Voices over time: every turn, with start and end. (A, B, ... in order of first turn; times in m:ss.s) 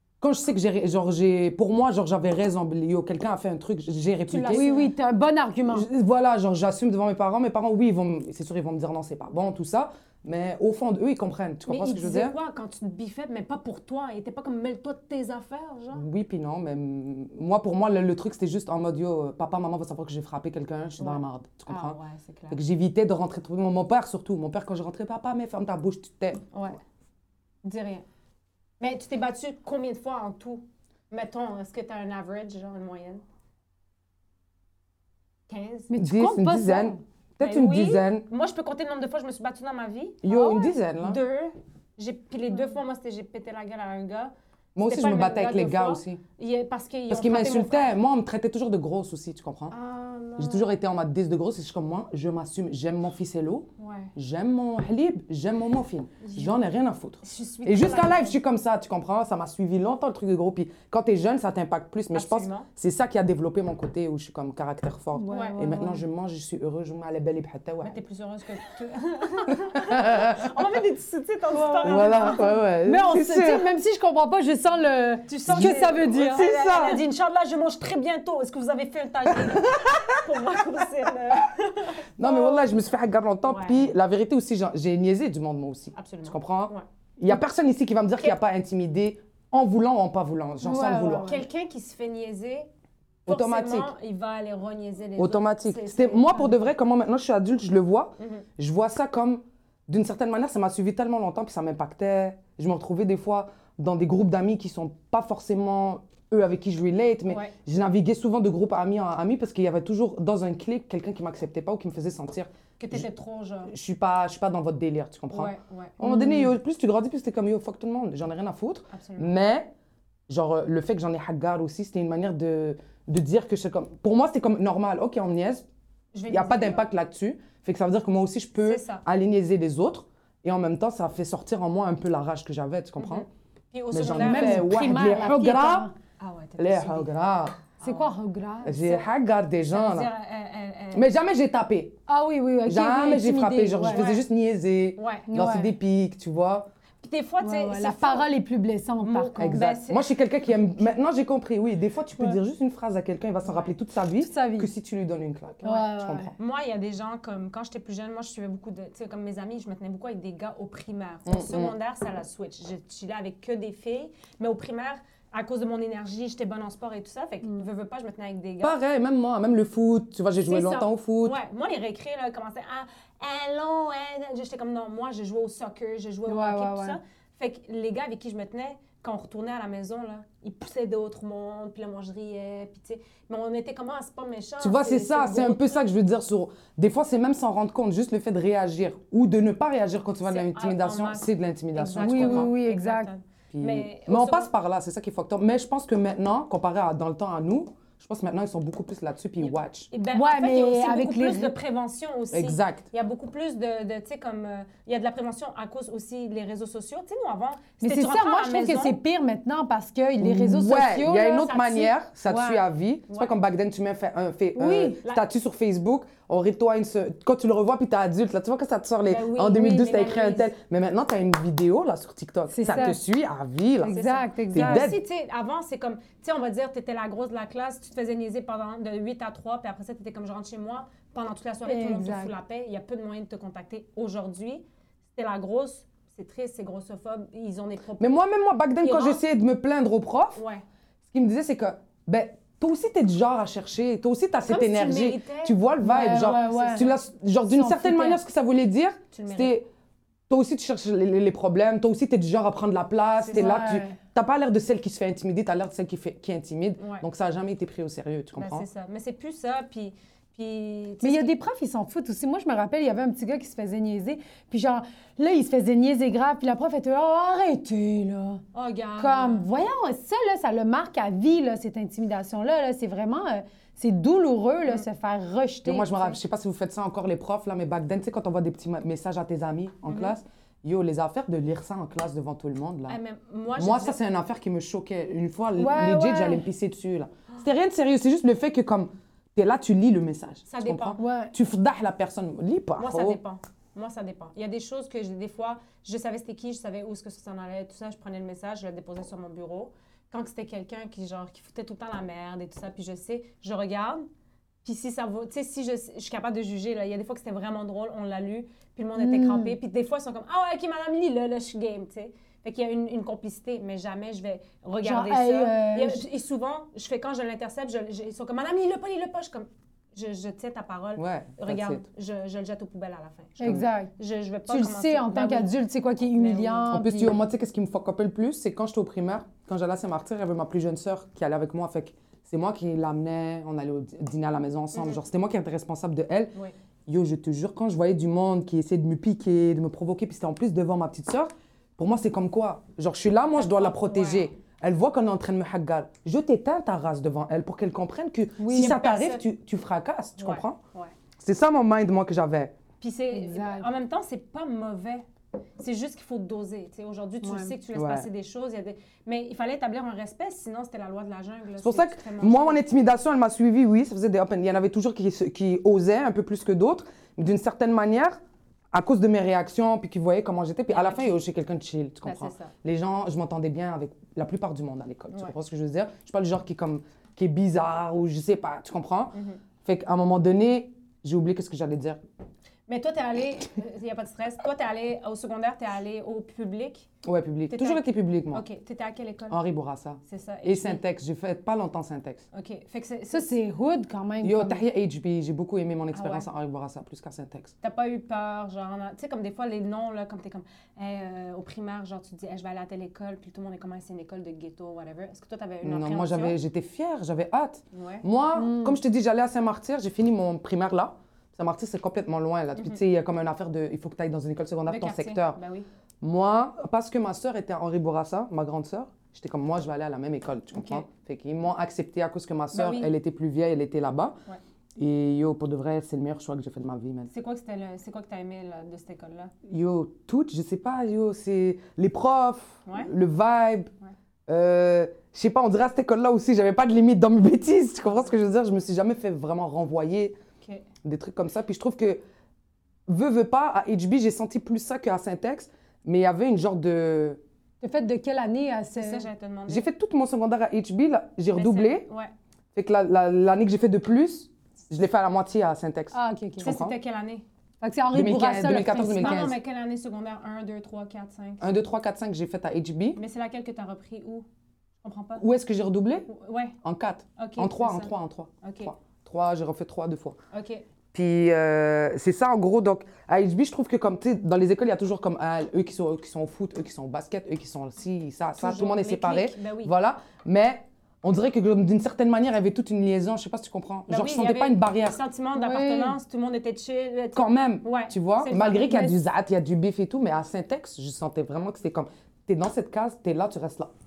0:00.2-0:04.6 A
0:04.3-0:04.9 B
0:04.5-0:05.9 C
0:05.7-0:12.4 A
0:11.6-0:16.0 B
0:15.9-0:22.0 A
0:21.0-0:22.6 B
0:22.5-0:26.4 A
0:27.6-0:28.0 B
0:28.8-0:33.2 B
0:35.5-0:35.9 B
0:35.9-0:37.0 C
0:36.0-0:38.2 A
0:37.4-0:48.0 B
0:40.2-0:41.2 A
0:44.8-0:46.2 A
0:47.1-0:49.7 A
0:49.7-0:50.8 B
0:50.4-1:08.0 A
0:53.8-0:54.1 B
0:56.2-0:56.7 B
0:57.2-0:58.4 B
1:02.1-1:02.7 B
1:05.2-1:06.0 C
1:05.3-1:05.6 B
1:07.8-1:12.5 B
1:09.5-1:10.6 A
1:11.5-1:16.5 C
1:11.8-1:13.7 A
1:15.3-1:22.7 B
1:15.4-1:17.0 A
1:19.3-1:20.3 A
1:22.2-1:31.3 A
1:23.5-1:23.9 B
1:26.0-1:26.8 B
1:30.6-1:31.4 C
1:31.2-1:32.7 B
1:33.2-1:33.9 A
1:33.3-1:36.7 B
1:35.2-1:53.0 A
1:38.2-1:38.4 B
1:47.3-1:47.5 B
1:52.8-1:53.7 B
1:53.7-1:59.7 A
1:55.3-1:56.0 B
1:56.0-1:56.5 C
1:58.9-1:59.4 B
2:00.3-2:05.6 A
2:06.1-2:06.8 B
2:06.3-2:13.2 A
2:08.6-2:09.0 B
2:13.0-2:14.7 B
2:13.9-2:15.9 A
2:14.1-2:15.9 C
2:16.2-2:17.1 B
2:16.6-2:17.6 A
2:17.6-2:18.1 B
2:17.8-2:18.8 C
2:18.6-2:20.1 A
2:18.8-2:19.0 B
2:19.7-2:21.1 B
2:20.9-2:22.0 A
2:22.1-2:24.0 C
2:22.6-2:26.7 A
2:23.8-2:24.2 B
2:25.0-2:25.3 B
2:25.3-2:25.7 C
2:27.0-2:28.3 B
2:27.4-2:29.6 C
2:29.0-2:30.0 B
2:29.4-2:36.3 A
2:33.4-2:33.8 B
2:34.2-2:34.7 C
2:35.6-2:36.3 C
2:36.4-2:48.8 B
2:41.3-2:41.7 A
2:48.6-2:51.4 A
2:50.4-3:05.8 B
2:56.2-2:57.0 C
3:04.6-3:12.5 A
3:10.2-3:14.5 B
3:12.0-3:13.1 C
3:13.5-3:19.9 A
3:19.4-3:29.0 B
3:20.1-3:21.5 C
3:22.3-3:22.8 A
3:27.8-3:32.6 C
3:30.2-3:44.0 A
3:34.6-3:35.0 C
3:39.1-3:40.5 B
3:42.5-3:43.0 C
3:43.8-3:44.9 C
3:43.8-3:58.2 B
3:44.5-3:45.0 A
3:51.6-3:52.3 C
3:58.0-4:00.4 A
3:58.8-3:59.2 B
4:00.4-4:00.6 B
4:01.1-4:09.6 A
4:04.5-4:07.0 B
4:05.8-4:06.9 C
4:07.4-4:08.2 C
4:09.1-4:09.6 B
4:10.3-4:18.6 A
4:13.2-4:13.6 B
4:13.3-4:14.0 C
4:16.8-4:17.0 B
4:18.4-4:21.3 B
4:21.0-4:28.4 C
4:28.5-4:29.5 B
4:29.0-4:35.9 C
4:35.6-4:43.0 A
4:39.9-4:40.2 B
4:42.9-4:44.0 B
4:43.6-4:53.2 A
4:45.6-4:46.4 C
4:50.5-4:51.0 B
4:51.0-4:51.3 C
4:52.8-5:04.0 B
5:04.6-5:25.5 B
5:09.0-5:09.5 C
5:14.8-5:16.0 C
5:21.0-5:21.8 A
5:23.4-5:23.9 C
5:24.5-5:27.2 C
5:26.1-5:26.7 B
5:26.7-5:36.3 A
5:34.7-5:35.0 B
5:36.9-5:50.6 A
5:43.4-5:44.3 B
5:48.4-5:48.8 C
5:48.5-5:49.2 B
5:50.2-5:50.9 B
5:51.2-5:52.5 A
5:52.8-5:55.0 B
5:53.1-5:53.7 C
5:55.6-6:02.6 B
5:57.2-5:57.5 C
5:57.7-5:58.1 A
6:01.6-6:08.2 A
6:08.7-6:22.0 A
6:10.7-6:11.1 B
6:12.0-6:12.5 B
6:19.1-6:19.4 B
6:22.7-6:26.9 B
6:27.0-6:28.4 A
6:27.5-6:29.4 B
6:29.3-6:32.2 A
6:30.1-6:30.8 B
6:32.3-6:33.3 B
6:33.1-6:34.6 C
6:34.2-6:37.5 A
6:35.9-6:36.3 B
6:37.6-6:46.4 B
6:45.6-6:55.4 A
6:47.7-6:48.0 B
6:48.3-6:48.8 C
6:54.7-6:55.7 B
6:56.0-7:04.2 A
7:00.5-7:00.8 B
7:02.5-7:02.9 B
7:04.8-7:07.1 A
7:07.1-7:09.3 B
7:09.5-7:13.7 A
7:14.3-7:20.2 A
7:20.8-7:22.0 A
7:22.9-7:27.2 A
7:27.6-7:29.0 C
7:28.8-7:29.6 B
7:29.5-7:31.9 A
7:31.3-7:32.1 B
7:32.5-7:36.8 A
7:35.9-7:36.5 C
7:36.4-7:37.2 B
7:37.6-7:39.3 C
7:37.9-7:39.4 A
7:38.9-7:41.5 B
7:41.4-7:43.0 A
7:43.0-7:44.2 B
7:44.8-7:45.2 B
7:45.2-7:46.1 A
7:46.1-7:46.6 B
7:46.6-7:50.2 A
7:47.2-7:47.9 B
7:48.4-7:48.7 B
7:50.3-7:50.6 B
7:50.9-8:05.0 A
7:58.4-7:59.7 B
8:03.9-8:08.9 B
8:05.4-8:06.0 C
8:07.1-8:13.7 A
8:08.7-8:08.9 C